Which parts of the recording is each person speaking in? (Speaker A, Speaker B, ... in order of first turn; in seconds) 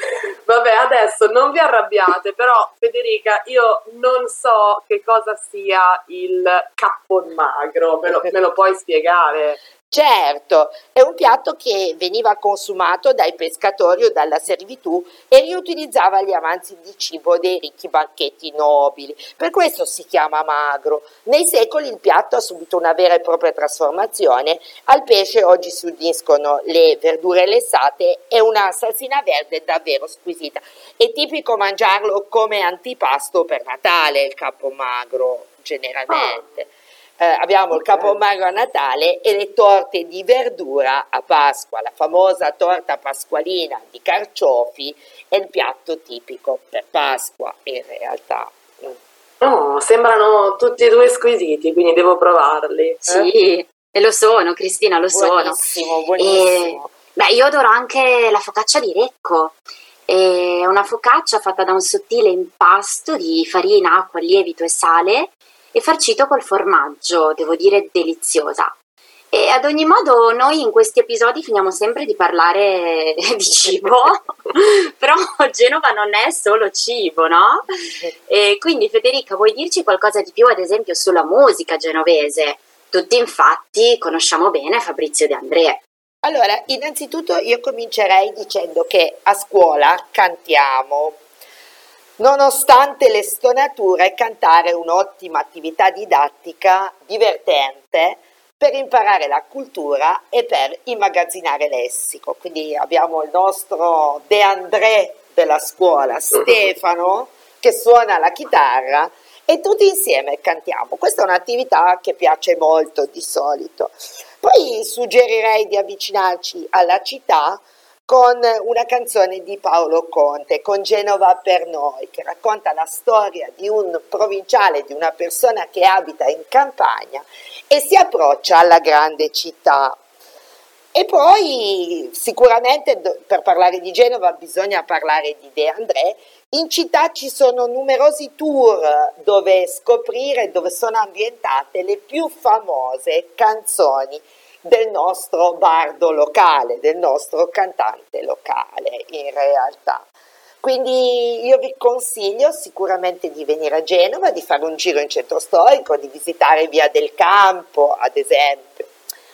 Speaker A: 0.5-9.6, 36.1-36.4, 49.4-53.3
Speaker B: 9.9-49.0, 55.1-56.9, 86.2-91.2, 92.2-130.0, 130.9-150.1, 150.6-158.9
Speaker C: 53.1-55.6, 56.2-59.6, 60.1-68.7, 69.3-77.6, 78.3-85.8